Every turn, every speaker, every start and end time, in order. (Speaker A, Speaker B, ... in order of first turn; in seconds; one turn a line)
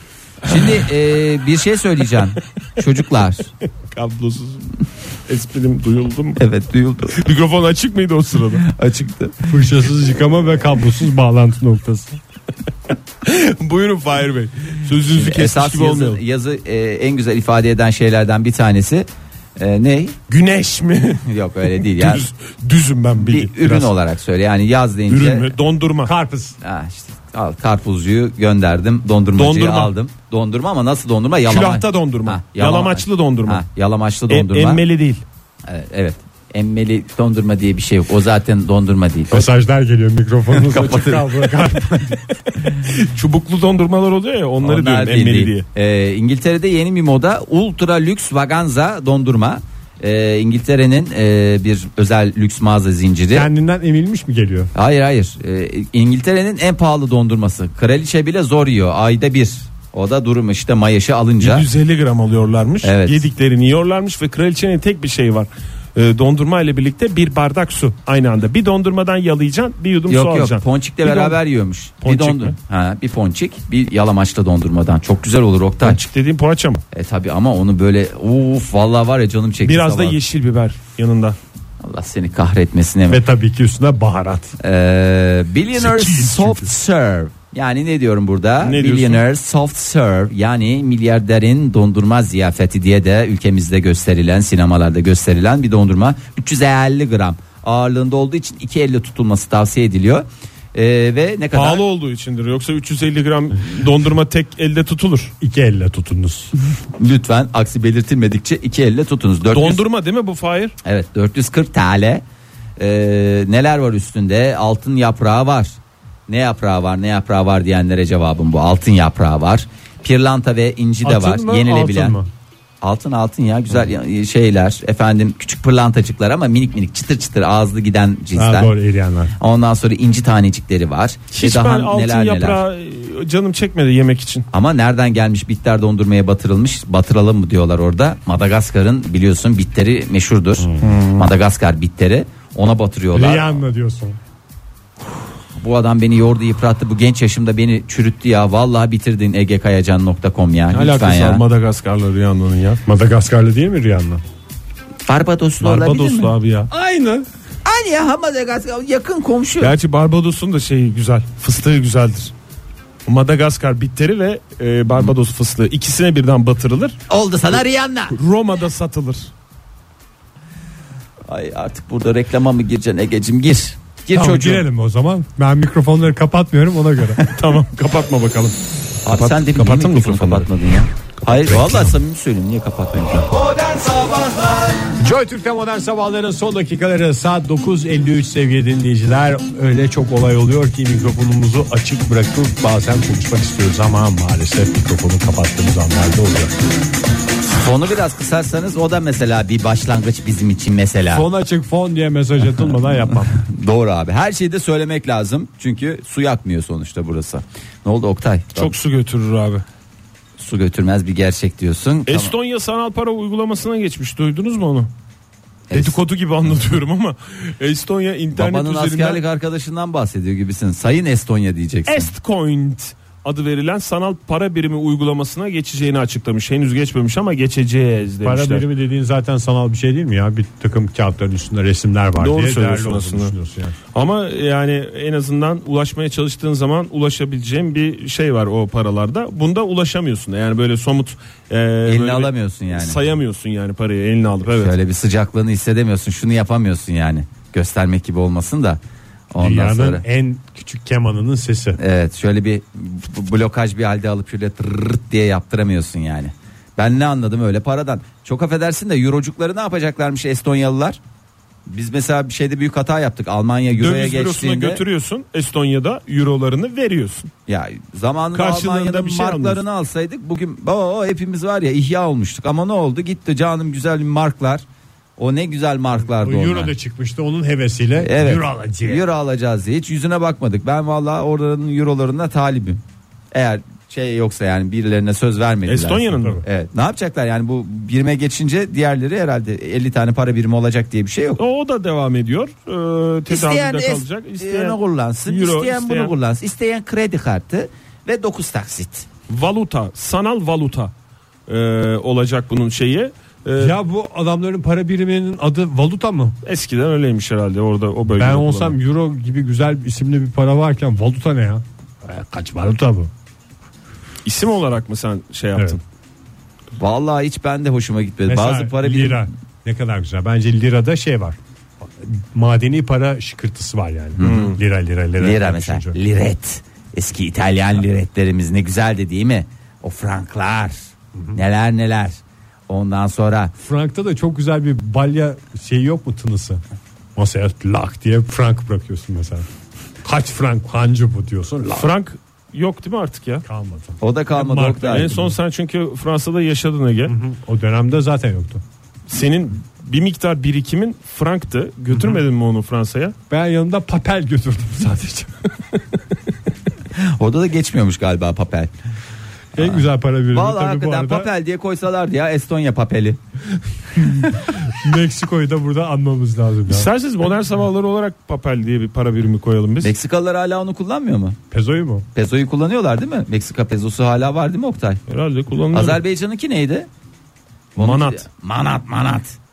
Speaker A: 0.4-3.5
Speaker B: 0.5-0.8
Speaker B: 3.9-4.7
Speaker B: 5.3-6.4
Speaker A: 6.4-7.2
Speaker B: 7.1-8.7
Speaker A: 8.6-9.5
Speaker C: 9.5-12.2
Speaker B: 13.2-16.2
Speaker A: 15.0-20.1
Speaker B: 20.3-23.9
Speaker A: 21.2-22.3
Speaker A: 23.2-25.5
Speaker B: 25.1-26.1
Speaker C: 26.0-26.6
Speaker A: 26.6-34.8
Speaker B: 29.4-29.9
Speaker B: 31.5-33.6
Speaker B: 34.3-35.2
Speaker A: 35.6-39.5
Speaker C: 39.3-42.2
Speaker A: 40.5-41.3
Speaker B: 42.8-45.6
Speaker A: 44.6-53.5
Speaker C: 53.3-54.7
Speaker A: 54.7-61.7
Speaker B: 61.4-71.4
Speaker A: 62.8-63.2
Speaker A: 70.1-76.0
Speaker B: 72.0-72.5
Speaker B: 75.8-76.8
Speaker A: 76.9-80.2
Speaker B: 79.6-81.3
Speaker A: 81.8-83.2
Speaker C: 83.1-84.5
Speaker A: 84.6-101.8
Speaker C: 85.8-86.7
Speaker B: 88.6-89.2
Speaker B: 101.5-105.3
Speaker C: 105.4-106.5
Speaker A: 107.0-109.8
Speaker B: 109.5-110.8
Speaker A: 110.8-112.2
Speaker A: 112.8-122.2
Speaker C: 121.0-122.3
Speaker A: 122.8-128.7
Speaker C: 128.3-129.3
Speaker A: 129.4-132.6
Speaker B: 131.3-134.5
Speaker A: 134.5-143.6
Speaker C: 140.6-140.9
Speaker B: 140.8-141.3
Speaker C: 143.1-144.2
Speaker A: 145.6-151.4
Speaker B: 150.7-152.8
Speaker C: 152.9-154.2
Speaker A: 155.1-156.3
Speaker B: 155.6-156.7
Speaker C: 156.7-157.2
Speaker A: 157.6-159.7
Speaker B: 159.6-162.3
Speaker B: 163.1-167.0
Speaker A: 167.1-168.2
Speaker B: 168.1-169.3
Speaker A: 171.3-174.6
Speaker C: 174.1-177.2
Speaker B: 177.2-178.5
Speaker A: 179.0-184.3
Speaker B: 179.1-180.5
Speaker B: 181.5-181.8
Speaker C: 185.0-196.5
Speaker A: 197.4-201.2
Speaker C: 201.1-203.3
Speaker A: 203.3-208.7
Speaker B: 208.5-209.6
Speaker A: 210.4-212.3
Speaker B: 212.1-214.9
Speaker A: 215.7-216.0
Speaker B: 215.7-219.2
Speaker A: 218.3-222.1
Speaker B: 221.9-228.6
Speaker C: 228.2-233.8
Speaker B: 232.2-233.3
Speaker B: 233.9-244.7
Speaker A: 241.8-243.0
Speaker A: 244.5-248.8
Speaker A: 249.3-250.0
Speaker C: 249.4-251.8
Speaker A: 251.8-261.0
Speaker A: 261.7-264.8
Speaker B: 263.7-267.3
Speaker A: 267.5-274.6
Speaker B: 268.3-269.6
Speaker A: 275.2-276.7
Speaker C: 276.0-279.1
Speaker A: 278.0-282.8
Speaker A: 283.3-291.4
Speaker B: 285.6-286.4
Speaker B: 291.4-296.1
Speaker A: 293.3-299.1
Speaker B: 299.3-300.9
Speaker B: 301.5-303.7
Speaker C: 303.6-306.4
Speaker B: 306.4-308.7
Speaker C: 308.1-313.1
Speaker B: 314.2-315.8
Speaker A: 316.8-319.2
Speaker C: 318.2-326.0
Speaker A: 324.2-324.5
Speaker B: 324.2-324.6
Speaker A: 325.2-333.5
Speaker C: 331.1-331.4
Speaker C: 333.6-336.6
Speaker C: 337.1-339.4
Speaker C: 340.0-341.9
Speaker B: 341.7-343.4
Speaker C: 343.4-345.3
Speaker A: 344.0-345.3
Speaker B: 344.8-347.1
Speaker C: 347.1-348.6
Speaker B: 349.1-353.1
Speaker C: 351.9-352.2
Speaker C: 353.3-355.5
Speaker A: 356.9-358.7
Speaker C: 359.5-361.3
Speaker A: 359.5-363.2
Speaker C: 364.6-366.9
Speaker B: 366.7-369.9
Speaker A: 369.8-371.4
Speaker C: 371.5-372.1
Speaker A: 372.1-375.0
Speaker B: 375.1-376.0
Speaker A: 375.7-376.9
Speaker A: 377.8-379.4
Speaker B: 377.8-378.2